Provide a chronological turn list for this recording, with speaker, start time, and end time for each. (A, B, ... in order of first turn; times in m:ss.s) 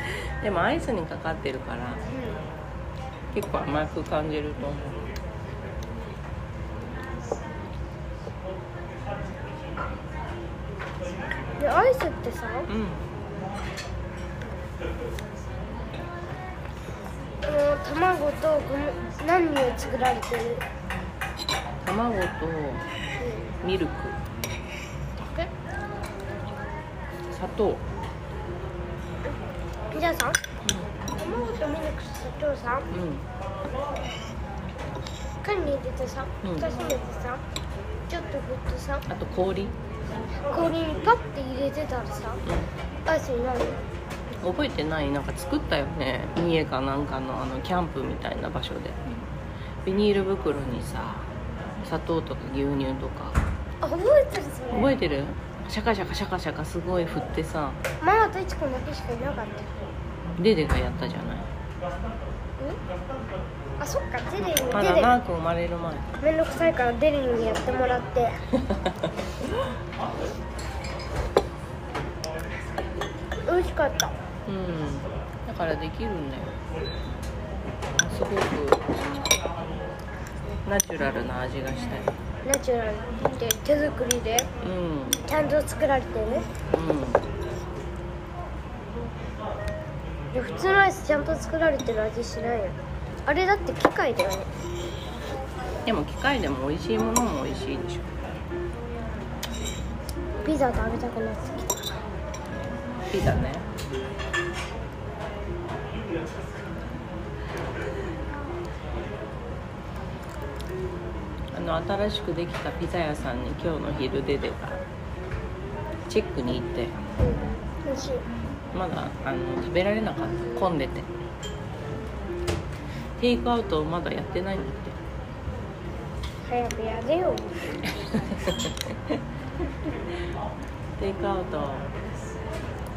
0:00.4-0:02.0 A
0:02.1-0:02.4 B
0:03.3-0:05.1 A
0:11.6-0:12.7 B
0:12.7-0:13.0 A
0:17.4-0:20.6 B
0:21.8-0:22.8 A
0:23.2-0:23.5 B
0:23.6-0:24.2 A
0:25.2-0:25.5 B
0:27.3-0:27.8 A
0:29.9-0:30.4 B
0:30.6-0:30.9 A
0:31.2-0:32.9 B
0:32.9-0:33.3 A
0:35.4-0:37.4 B
0:36.4-0:36.7 A
0:38.1-0:39.0 B
0:39.1-0:39.7 A
0:40.5-0:42.4 B
0:42.4-0:42.7 A
0:43.1-0:43.8 B
0:44.4-0:49.1 A
0:49.8-0:51.3 A
0:51.8-0:53.4 A
0:53.8-0:54.9 B
0:54.7-0:57.8 A
0:58.0-0:59.7 B
1:00.4-1:01.5 A
1:03.8-1:05.2 B
1:04.7-1:06.1 A
1:06.2-1:08.4 B
1:08.6-1:09.1 A
1:13.5-1:14.1 B
1:14.4-1:16.6 A
1:18.0-1:18.9 A
1:20.6-1:22.1 A
1:22.4-1:24.5 B
1:24.6-1:25.2 A
1:25.3-1:26.5 B
1:26.7-1:27.2 A
1:30.3-1:34.5 B
1:35.8-1:38.1 A
1:40.4-1:42.0 B
1:43.1-1:43.7 A
1:51.5-1:54.8 A
1:56.1-1:57.0 A
1:57.2-1:58.2 B
1:58.7-2:01.1 A
2:03.2-2:05.0 A
2:06.4-2:07.5 B
2:08.0-2:09.2 A
2:11.0-2:11.9 A